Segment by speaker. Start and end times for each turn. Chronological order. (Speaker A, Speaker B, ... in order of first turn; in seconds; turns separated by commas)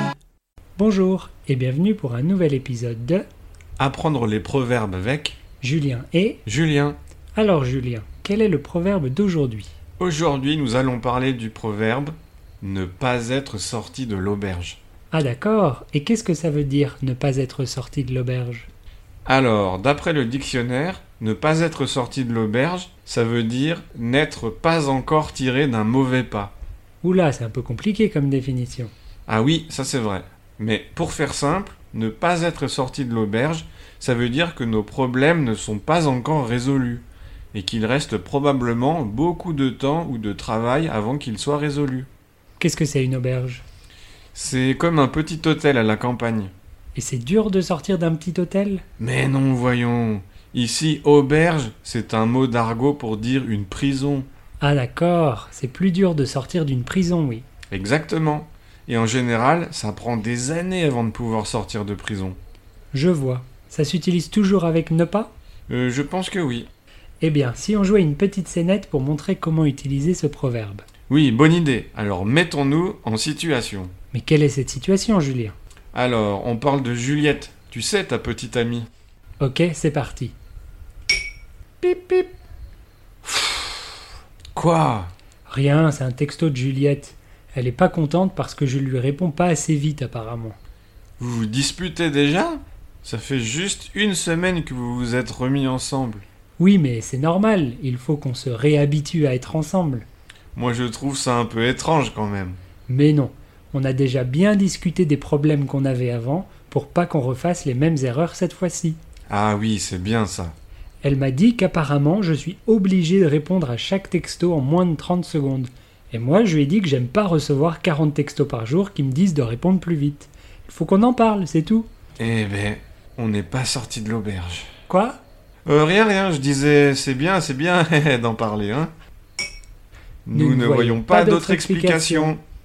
Speaker A: 0.8-3.2, Speaker B: 3.8-5.4, Speaker A: 5.6-6.4, Speaker B: 6.5-7.0, Speaker A: 7.3-9.7, Speaker B: 10.0-14.8, Speaker A: 15.1-18.7, Speaker B: 19.3-26.5, Speaker A: 27.0-28.9, Speaker B: 29.3-42.1, Speaker A: 42.6-43.6, Speaker B: 44.4-46.5, Speaker A: 47.0-48.8, Speaker B: 49.0-54.3, Speaker A: 54.6-57.5, Speaker B: 57.7-62.4, Speaker A: 62.9-65.3, Speaker B: 65.7-66.7, Speaker A: 67.2-70.8, Speaker B: 71.1-73.9, Speaker A: 74.1-75.6, Speaker B: 75.9-78.9, Speaker A: 79.4-80.3, Speaker B: 81.8-82.3, Speaker B: 83.2-83.7, Speaker B: 84.5-85.1, Speaker A: 85.5-90.6, Speaker B: 91.2-96.2, Speaker A: 96.6-100.1, Speaker B: 100.5-102.6, Speaker A: 102.9-109.0, Speaker B: 109.3-110.5, Speaker A: 111.0-121.9, Speaker B: 122.2-124.7, Speaker A: 124.9-125.2, Speaker B: 125.7-128.9, Speaker B: 130.3-132.4, Speaker A: 130.3-132.3